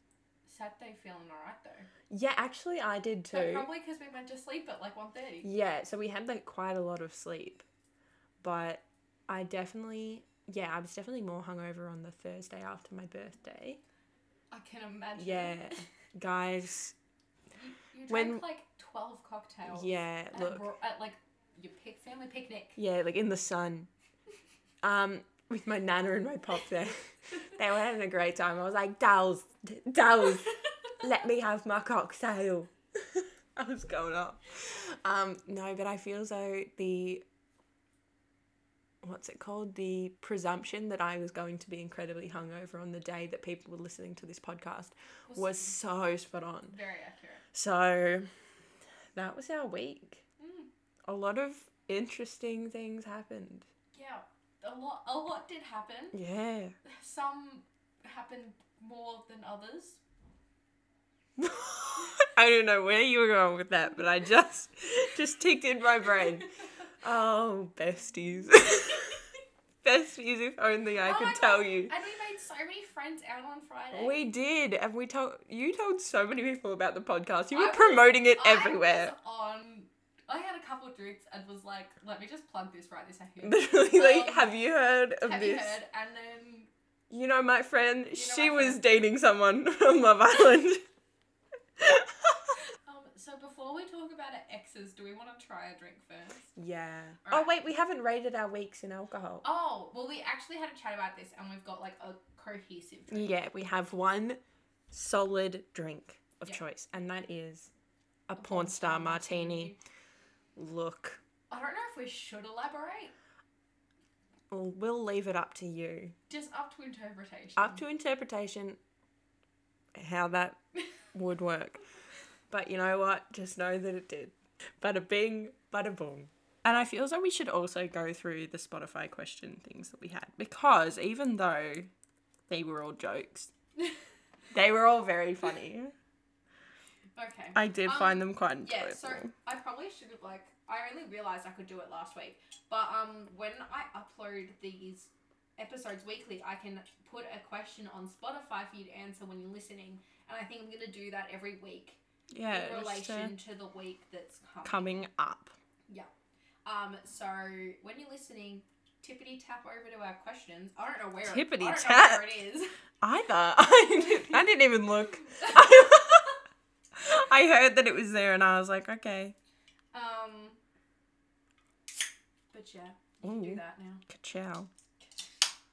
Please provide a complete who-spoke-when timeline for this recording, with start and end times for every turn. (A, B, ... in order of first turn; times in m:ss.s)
0:00.5-0:01.9 A
0:02.1-0:03.7 B
0:03.3-0:05.5 A
0:05.4-0:07.7 B
0:08.4-0:13.8 B
0:14.5-0:15.8 A
0:15.2-0:17.0 B
0:17.5-0:22.8 A
0:18.1-0:18.4 B
0:19.7-0:20.7 B
0:22.8-0:23.9 B
0:24.8-0:37.2 B
0:39.0-0:46.8 B
0:45.3-0:45.7 A
0:46.7-0:47.4 A
0:47.5-0:48.3 B
0:49.2-0:50.2 B
0:50.4-0:50.7 A
0:51.0-0:53.7 B
0:53.9-0:56.2 A
0:56.1-0:56.8 B
0:56.8-1:00.0 A
1:01.4-1:09.3 B
1:09.8-1:11.9 B
1:11.0-1:14.2 A
1:14.0-1:19.1 B
1:17.5-1:24.6 A
1:23.4-1:25.8 B
1:25.2-1:26.7 A
1:27.1-1:30.8 B
1:28.1-1:28.8 A
1:31.8-1:32.6 B
1:32.8-1:36.5 A
1:36.6-1:39.5 B
1:37.2-1:37.6 A
1:39.4-1:43.3 A
1:43.1-1:44.4 B
1:44.9-1:47.7 B
1:48.3-1:49.8 B
1:48.4-1:49.8 A
1:50.6-1:51.2 B
1:51.5-1:53.1 A
1:54.5-1:56.2 B
1:56.3-1:57.8 A
1:57.6-1:58.8 B
2:00.0-2:00.6 B
2:01.1-2:01.8 B
2:02.5-2:11.9 B
2:12.5-2:13.5 B
2:14.5-2:15.9 B
2:17.2-2:35.0 A
2:17.6-2:19.3 B
2:32.3-2:33.4 B
2:34.6-2:35.6 B
2:36.6-2:42.7 A
2:41.2-2:42.4 B
2:43.0-2:46.3 B
2:45.3-2:46.2 A
2:47.0-2:49.4 B
2:49.9-2:50.6 A
2:52.5-2:54.0 A
2:53.2-2:54.7 B
2:55.0-2:55.4 A